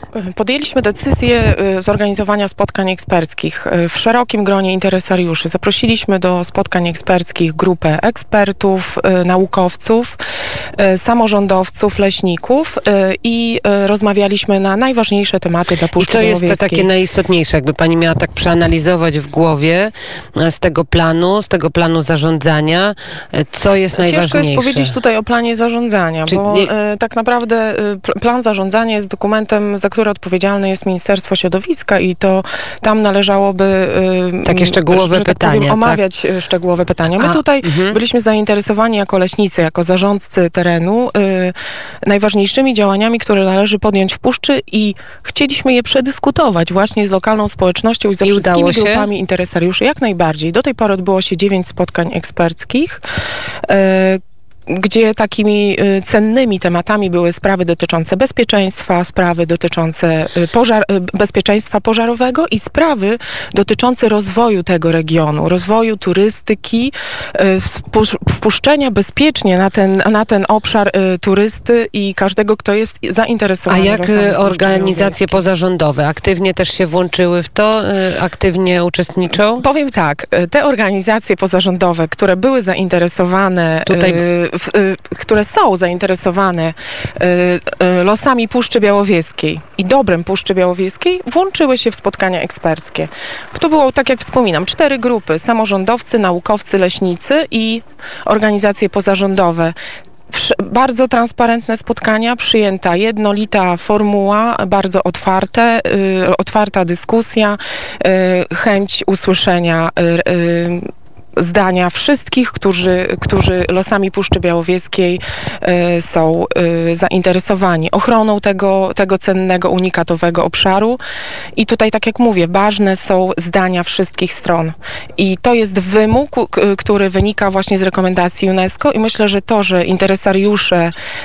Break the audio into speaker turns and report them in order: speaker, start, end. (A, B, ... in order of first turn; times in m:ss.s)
0:00.1-0:10.2 A
0:10.8-0:16.9 A
0:16.0-0:24.9 B
0:23.9-0:53.0 A
0:26.3-0:26.7 B
0:34.4-0:36.0 B
0:37.1-0:38.0 B
0:48.2-0:49.1 B
0:53.6-1:15.4 A
1:13.7-1:19.6 B
1:19.6-1:39.8 A
1:23.9-1:24.2 B
1:40.3-2:01.0 A
2:01.6-2:10.9 A